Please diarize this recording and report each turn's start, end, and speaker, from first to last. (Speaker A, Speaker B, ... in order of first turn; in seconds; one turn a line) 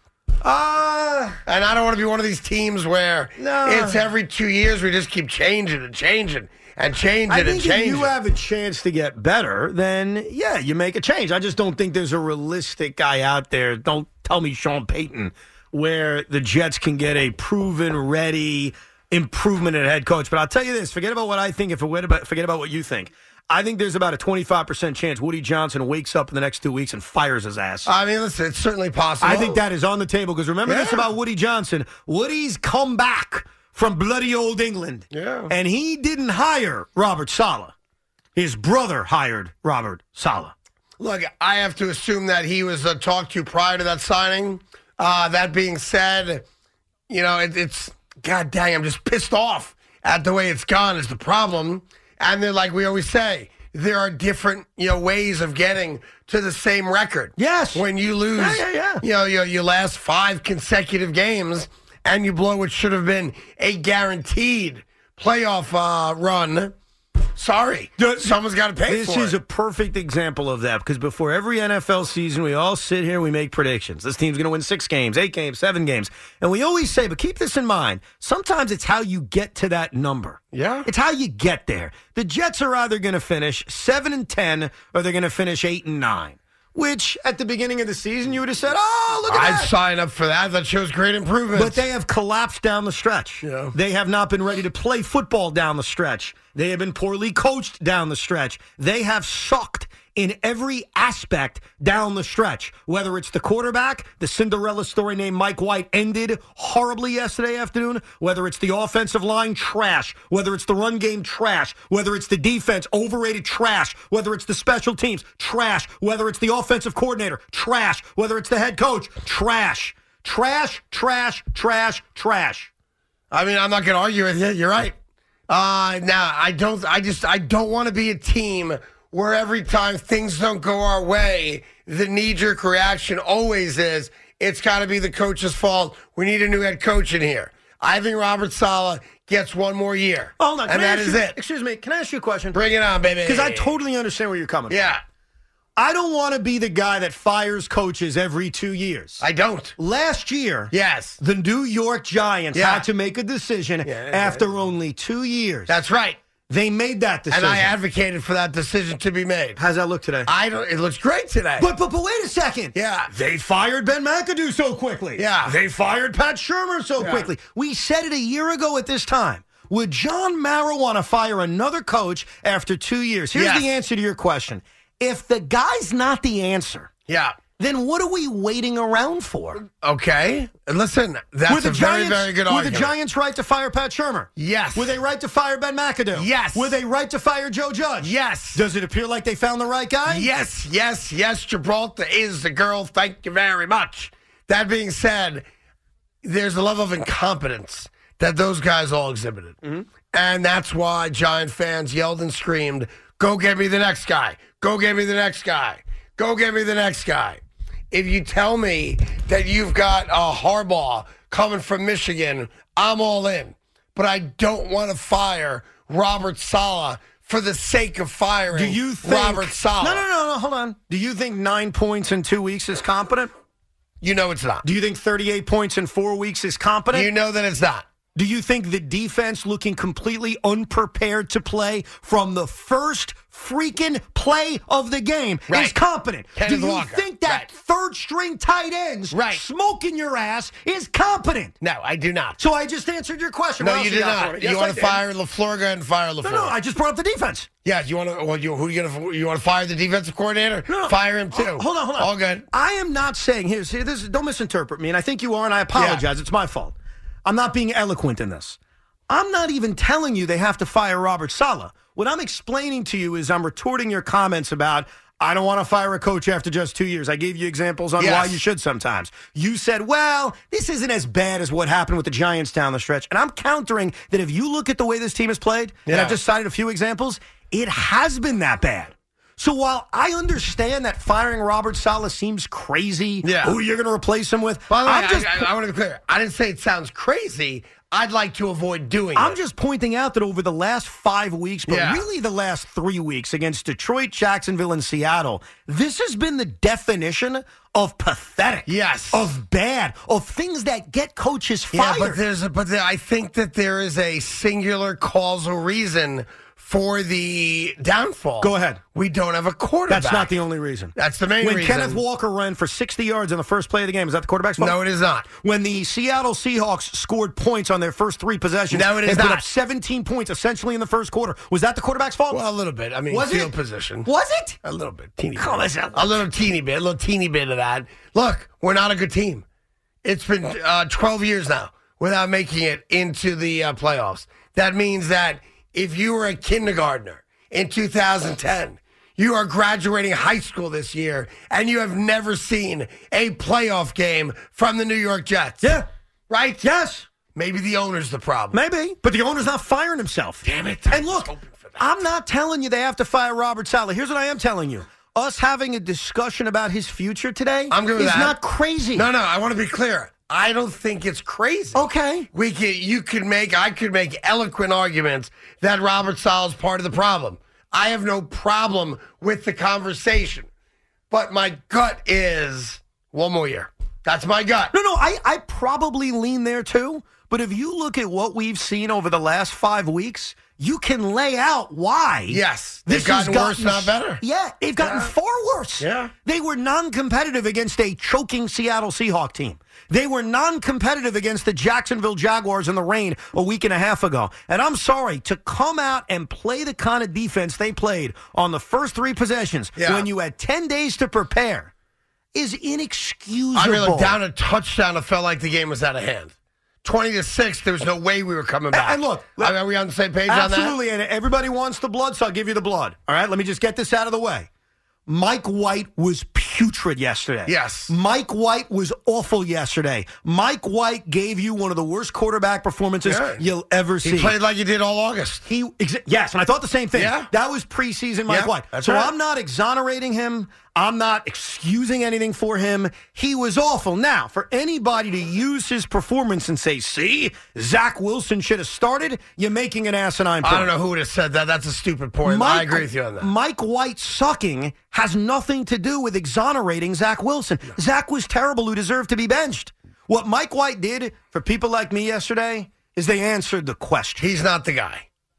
Speaker A: 0.4-1.4
Speaker B: 1.4-8.1
Speaker A: 3.4-4.0
Speaker A: 7.3-27.9
Speaker B: 27.9-29.6
Speaker A: 29.2-37.7
Speaker B: 30.6-31.1
Speaker B: 35.1-35.5
Speaker A: 38.3-40.5
Speaker B: 41.0-46.4
Speaker B: 47.1-66.7
Speaker A: 57.4-57.8
Speaker A: 58.3-59.0
Speaker B: 67.3-69.3
Speaker A: 68.0-68.2
Speaker A: 68.9-89.7
Speaker B: 80.5-80.9
Speaker B: 89.3-91.8
Speaker A: 91.5-122.7
Speaker B: 93.4-93.7
Speaker B: 123.3-124.9
Speaker B: 125.5-141.4
Speaker A: 140.4-142.6
Speaker B: 142.5-143.7
Speaker A: 143.2-144.9
Speaker B: 144.7-145.0
Speaker A: 145.8-149.2
Speaker B: 149.2-149.8
Speaker A: 149.8-155.7
Speaker B: 150.7-151.2
Speaker B: 152.5-152.8
Speaker B: 153.8-154.5
Speaker B: 155.7-156.2
Speaker A: 156.5-157.7
Speaker B: 157.3-159.6
Speaker A: 159.6-160.3
Speaker B: 160.3-161.7
Speaker A: 161.6-176.9
Speaker B: 162.7-163.1
Speaker B: 165.2-165.5
Speaker B: 167.0-167.3
Speaker B: 173.3-173.6
Speaker B: 177.1-177.3
Speaker A: 177.6-179.6
Speaker B: 179.6-182.9
Speaker A: 181.5-190.3
Speaker B: 184.4-185.0
Speaker B: 186.1-186.8
Speaker B: 188.0-188.6
Speaker B: 190.1-195.4
Speaker B: 196.2-207.4
Speaker B: 207.9-220.0
Speaker A: 218.5-223.3
Speaker B: 224.0-224.6
Speaker A: 224.6-227.1
Speaker B: 226.9-227.8
Speaker A: 228.1-241.5
Speaker B: 235.5-235.8
Speaker B: 236.3-237.5
Speaker B: 239.1-239.4
Speaker B: 241.6-242.4
Speaker A: 242.4-245.0
Speaker B: 243.6-246.5
Speaker A: 246.2-247.5
Speaker B: 247.6-252.4
Speaker A: 250.7-258.6
Speaker B: 255.7-256.0
Speaker A: 259.1-285.5
Speaker B: 268.0-268.4
Speaker B: 275.9-276.2
Speaker B: 283.2-283.6
Speaker B: 284.7-289.4
Speaker A: 289.1-302.2
Speaker B: 291.7-292.0
Speaker B: 298.7-299.3
Speaker B: 301.7-310.3
Speaker A: 308.4-308.8
Speaker A: 309.9-314.7
Speaker B: 310.9-312.0
Speaker B: 314.6-315.3
Speaker A: 315.4-322.4
Speaker B: 318.7-319.4
Speaker B: 322.3-324.1
Speaker A: 323.1-323.5
Speaker A: 324.0-324.6
Speaker B: 324.6-329.4
Speaker A: 325.4-326.2
Speaker B: 330.0-345.7
Speaker B: 346.3-346.6
Speaker A: 346.6-347.1
Speaker B: 347.3-348.6
Speaker A: 348.5-359.1
Speaker B: 350.4-351.9
Speaker B: 357.7-358.4
Speaker B: 358.9-370.5
Speaker A: 361.7-362.3
Speaker B: 371.1-374.7
Speaker A: 374.7-401.7
Speaker B: 382.3-384.2
Speaker B: 384.8-385.1
Speaker B: 385.8-386.1
Speaker B: 399.8-400.1
Speaker A: 402.3-404.2
Speaker B: 403.5-406.3
Speaker B: 406.8-410.8
Speaker A: 408.7-409.5
Speaker A: 410.3-414.5
Speaker A: 415.1-424.3
Speaker B: 417.5-417.9
Speaker B: 423.0-423.4
Speaker B: 424.0-425.4
Speaker A: 425.4-440.7
Speaker B: 426.9-427.3
Speaker B: 428.3-429.1
Speaker B: 440.4-443.3
Speaker A: 442.2-454.2
Speaker B: 454.2-455.0